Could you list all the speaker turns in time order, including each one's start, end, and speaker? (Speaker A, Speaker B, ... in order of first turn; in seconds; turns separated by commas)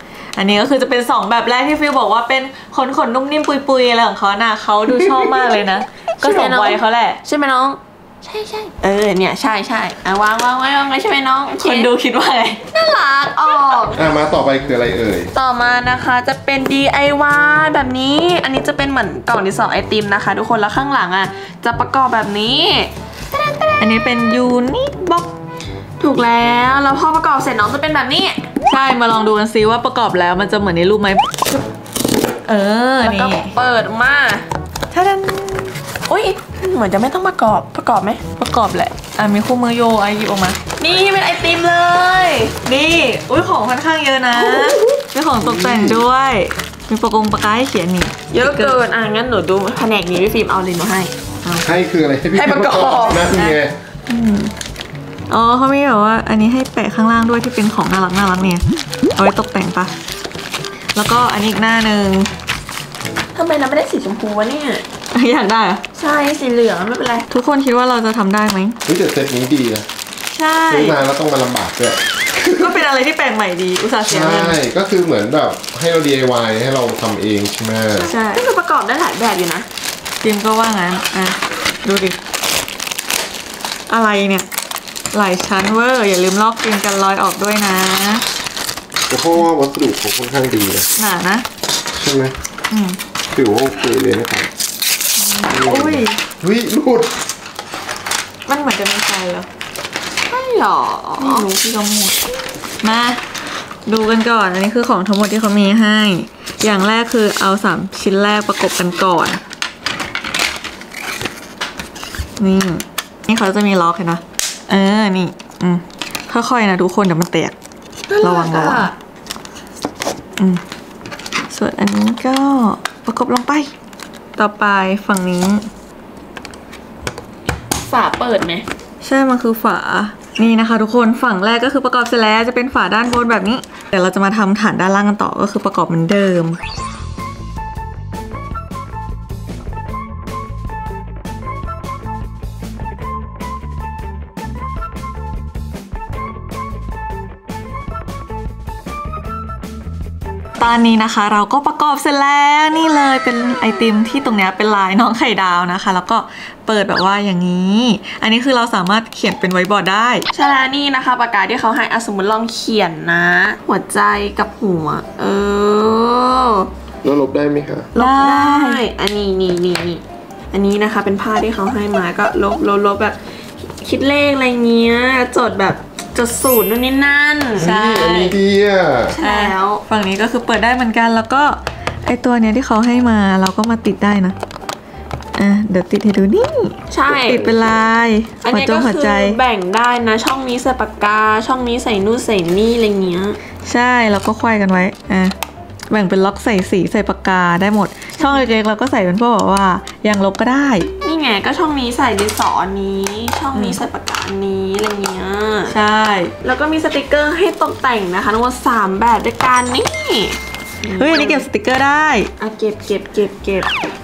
Speaker A: 0.4-7.2, Speaker B: 6.2-11.9, Speaker A: 11.6-12.6, Speaker B: 12.7-14.1, Speaker C: 13.9-15.3, Speaker B: 15.3-22.9, Speaker A: 23.8-25.3, Speaker B: 26.0-28.4, Speaker A: 28.7-31.4, Speaker A: 32.5-33.5, Speaker B: 33.0-34.5, Speaker A: 34.9-35.7, Speaker B: 36.1-38.2, Speaker A: 38.4-40.6, Speaker B: 40.8-42.5, Speaker A: 42.6-48.8, Speaker B: 44.4-44.8, Speaker C: 45.4-46.0, Speaker B: 48.3-51.1, Speaker C: 51.6-53.7, Speaker B: 52.3-53.3, Speaker A: 53.3-53.6, Speaker A: 54.1-54.5, Speaker A: 55.3-58.6, Speaker A: 59.2-59.9, Speaker A: 61.0-62.3, Speaker B: 63.4-64.8, Speaker A: 65.1-65.8, Speaker B: 66.0-67.3, Speaker A: 67.3-68.8, Speaker C: 68.9-69.9, Speaker A: 70.3-71.0, Speaker C: 70.7-72.8, Speaker A: 72.5-74.6, Speaker C: 74.1-78.1, Speaker B: 78.0-79.7, Speaker A: 78.1-78.4, Speaker A: 80.2-82.2, Speaker A: 83.9-84.5, Speaker A: 85.1-88.2, Speaker C: 89.1-90.9, Speaker A: 91.0-91.5, Speaker C: 91.9-92.3, Speaker A: 92.7-93.0, Speaker C: 93.3-94.5, Speaker A: 95.2-96.2, Speaker C: 95.5-97.1, Speaker A: 98.5-99.5, Speaker B: 100.3-101.5, Speaker A: 101.2-102.2, Speaker A: 102.8-103.2, Speaker A: 103.9-109.4, Speaker A: 112.4-117.5, Speaker B: 118.1-118.9, Speaker A: 118.2-118.9, Speaker A: 121.5-123.7, Speaker A: 124.4-125.7, Speaker B: 127.9-128.7, Speaker A: 129.0-136.6, Speaker A: 150.6-160.3, Speaker B: 160.3-166.7, Speaker C: 167.0-167.9, Speaker B: 167.9-177.7, Speaker A: 168.0-168.8, Speaker A: 177.6-178.4, Speaker C: 177.6-179.2, Speaker B: 179.1-179.8, Speaker A: 179.2-184.4, Speaker A: 185.4-189.4, Speaker B: 186.9-187.5, Speaker C: 187.1-187.8, Speaker B: 188.4-193.4, Speaker A: 193.7-195.3, Speaker A: 195.9-200.9, Speaker B: 201.0-205.7, Speaker A: 203.6-203.8, Speaker A: 205.7-206.3, Speaker B: 206.4-211.4, Speaker A: 210.9-212.3, Speaker B: 212.4-213.7